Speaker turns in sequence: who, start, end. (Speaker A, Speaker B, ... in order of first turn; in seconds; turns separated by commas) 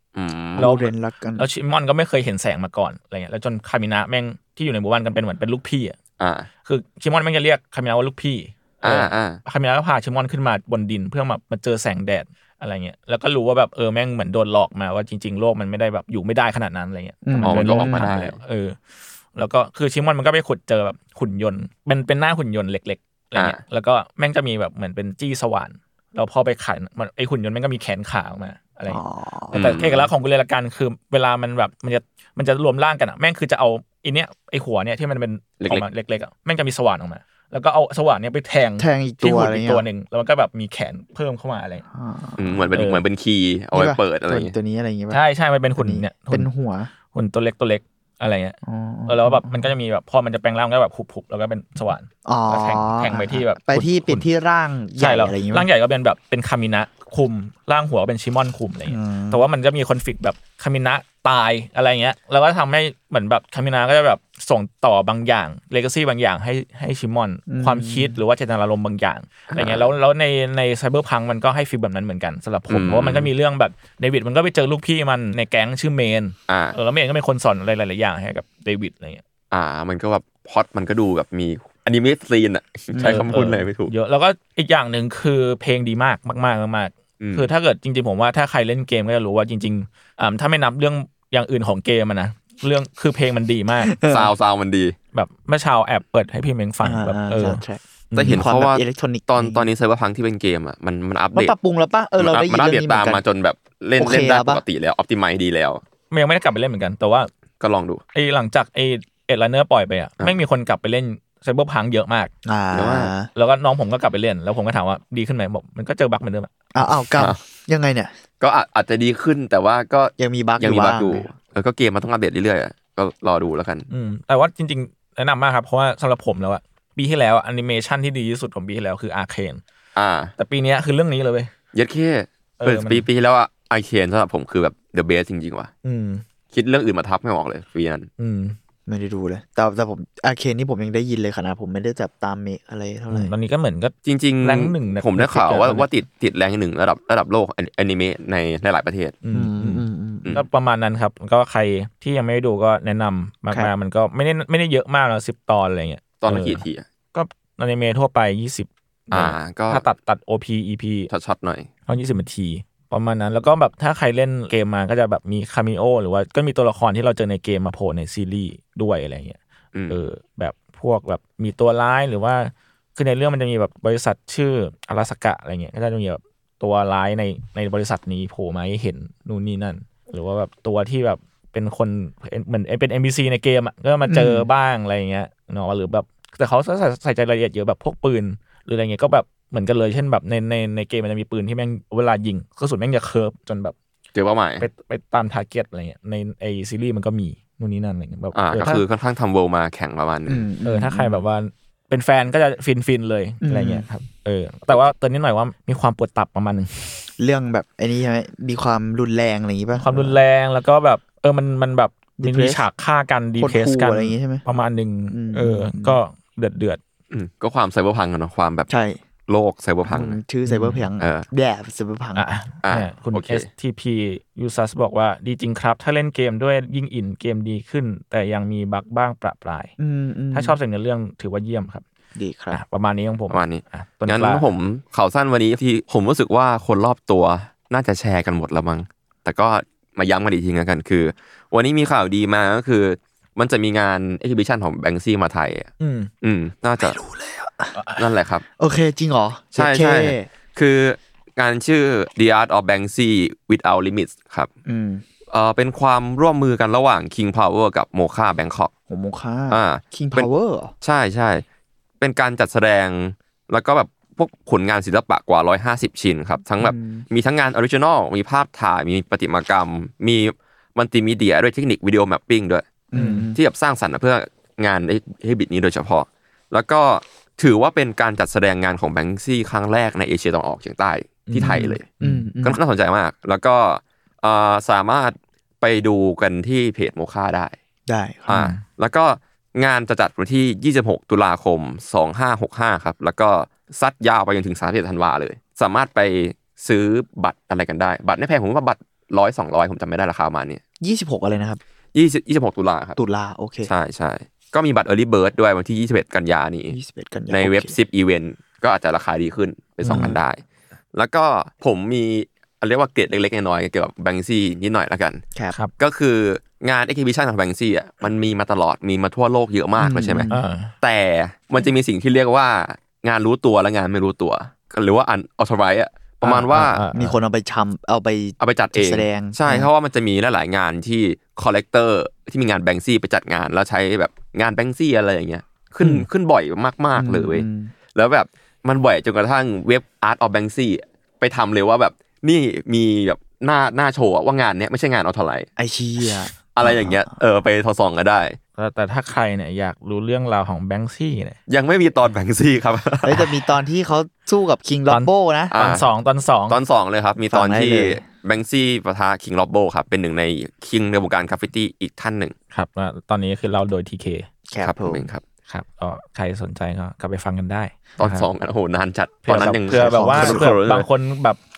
Speaker A: 0.1-0.7, Speaker B: 0.6-1.4, Speaker C: 0.6-6.0, Speaker A: 6.2-6.5, Speaker C: 6.6-18.8, Speaker A: 8.8-9.4, Speaker B: 17.2-18.1, Speaker A: 17.4-18.4, Speaker C: 19.3-29.0, Speaker B: 28.9-29.8, Speaker A: 29.5-30.1, Speaker C: 29.5-41.8, Speaker A: 35.6-35.9, Speaker B: 38.8-39.8, Speaker B: 41.9-42.6, Speaker A: 42.4-44.5, Speaker C: 42.7-43.0, Speaker B: 43.7-45.2, Speaker C: 45.1-46.5, Speaker B: 45.8-46.9, Speaker C: 47.1-48.5, Speaker B: 48.6-49.7, Speaker C: 49.1-54.2, Speaker B: 52.2-55.7, Speaker C: 55.0-79.2, Speaker B: 58.9-59.5, Speaker B: 67.5-68.2, Speaker A: 69.5-69.9, Speaker A: 72.7-73.3, Speaker A: 76.5-76.7, Speaker A: 79.5-83.9, Speaker B: 82.9-83.3, Speaker C: 83.0-93.9, Speaker A: 87.2-87.5, Speaker B: 93.8-94.3, Speaker A: 94.1-95.0, Speaker C: 95.1-98.4, Speaker B: 96.8-99.6, Speaker A: 98.1-101.5, Speaker B: 101.3-103.2, Speaker A: 102.2-105.8, Speaker B: 104.0-104.6, Speaker C: 106.1-107.3, Speaker A: 107.6-108.0, Speaker C: 108.1-112.3, Speaker B: 112.4-113.3, Speaker A: 112.7-113.1, Speaker C: 113.3-116.5, Speaker B: 116.7-118.1, Speaker A: 118.4-123.9, Speaker B: 120.2-121.3, Speaker C: 123.9-129.6, Speaker A: 129.9-130.3, Speaker C: 130.4-131.5, Speaker A: 131.7-135.7, Speaker C: 132.6-133.1, Speaker C: 135.8-136.2, Speaker A: 136.5-138.1, Speaker C: 138.2-138.6, Speaker B: 138.9-143.3, Speaker C: 143.1-145.9, Speaker A: 144.0-149.2, Speaker C: 149.2-161.1, Speaker B: 149.3-150.3, Speaker A: 156.2-156.8, Speaker A: 159.1-159.8, Speaker A: 161.1-161.7, Speaker C: 161.9-169.4, Speaker A: 169.7-170.0, Speaker C: 169.9-193.7, Speaker B: 184.1-184.5, Speaker A: 194.1-194.7, Speaker C: 194.6-198.8, Speaker A: 198.3-200.5, Speaker B: 200.2-201.2, Speaker C: 200.6-207.1, Speaker B: 203.4-203.8, Speaker B: 207.2-210.2, Speaker C: 209.8-216.8, Speaker B: 212.2-212.6, Speaker B: 213.4-214.4, Speaker B: 215.1-216.0, Speaker A: 217.1-218.7, Speaker B: 218.7-219.0, Speaker A: 219.3-220.2, Speaker B: 219.9-222.2, Speaker C: 220.4-220.9, Speaker A: 221.0-221.2, Speaker C: 222.1-229.7, Speaker A: 222.6-223.5, Speaker B: 229.8-230.6, Speaker C: 230.3-231.8, Speaker B: 232.1-232.6, Speaker C: 232.5-234.4, Speaker A: 233.3-245.7, Speaker C: 245.8-246.1, Speaker A: 246.2-247.0, Speaker B: 246.8-247.8, Speaker C: 247.7-248.0, Speaker A: 248.0-248.4, Speaker B: 248.6-250.3, Speaker A: 249.5-254.5, Speaker B: 254.7-255.0, Speaker A: 255.3-258.7, Speaker B: 258.9-260.7, Speaker A: 259.5-260.3, Speaker A: 260.8-261.4, Speaker A: 262.0-272.8, Speaker B: 266.6-267.1, Speaker B: 272.9-273.4, Speaker C: 272.9-273.3, Speaker A: 273.3-281.9, Speaker C: 281.3-282.3, Speaker B: 282.0-282.6, Speaker A: 282.4-287.5, Speaker B: 287.9-288.4, Speaker A: 288.3-300.6, Speaker C: 288.3-288.6, Speaker B: 300.8-301.6, Speaker A: 301.9-303.0, Speaker B: 303.0-303.7, Speaker A: 303.6-306.8, Speaker B: 306.7-307.7, Speaker A: 307.3-310.4, Speaker C: 309.8-310.1, Speaker B: 309.9-310.2, Speaker A: 310.9-315.2, Speaker A: 315.8-320.3, Speaker B: 319.8-320.4, Speaker C: 320.3-320.7, Speaker A: 320.8-326.8, Speaker C: 326.2-327.1, Speaker B: 326.9-329.7, Speaker A: 328.4-345.5, Speaker B: 336.9-337.7, Speaker B: 345.6-347.1, Speaker A: 346.5-348.4, Speaker C: 348.6-351.4, Speaker A: 351.5-353.3, Speaker B: 353.0-355.5, Speaker C: 354.9-356.6, Speaker A: 355.5-355.8, Speaker A: 356.5-362.3, Speaker B: 357.3-358.0, Speaker C: 362.5-364.3, Speaker B: 364.5-365.1, Speaker A: 364.6-365.2, Speaker C: 365.5-368.3, Speaker A: 368.0-370.9, Speaker C: 369.2-371.4, Speaker B: 369.4-370.5